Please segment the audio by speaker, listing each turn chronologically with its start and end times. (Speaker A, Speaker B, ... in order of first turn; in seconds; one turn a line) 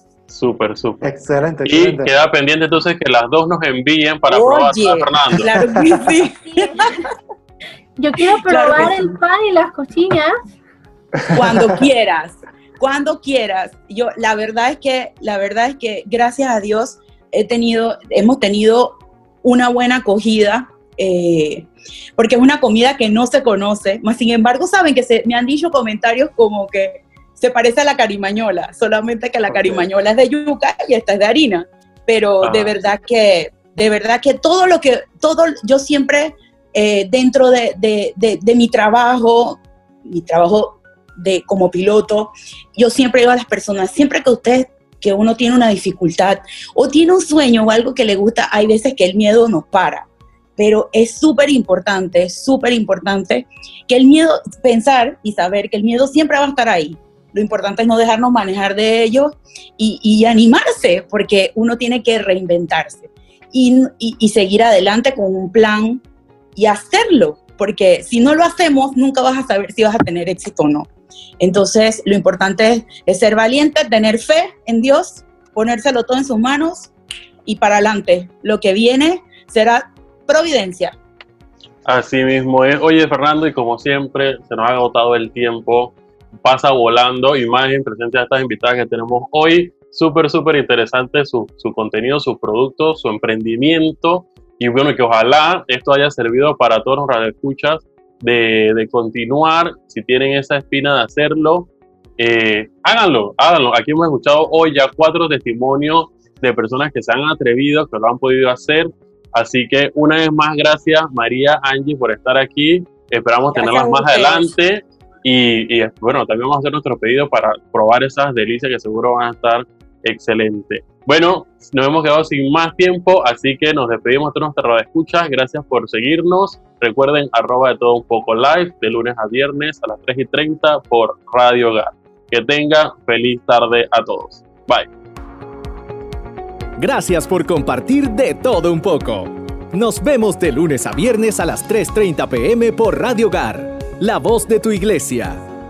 Speaker A: 0.3-1.1
Speaker B: 1.0-2.1
Speaker A: 1.6-5.5
Speaker C: 4.3-7.0
Speaker B: 5.7-6.1
Speaker D: 6.5-6.9
Speaker D: 8.0-10.3
Speaker C: 8.4-9.1
Speaker B: 11.3-11.8
Speaker C: 11.3-66.0
Speaker B: 29.5-29.9
Speaker A: 32.4-32.8
Speaker C: 66.5-76.9
Speaker C: 77.5-81.0
Speaker A: 81.8-134.9
Speaker C: 113.5-114.5
Speaker E: 136.8-145.4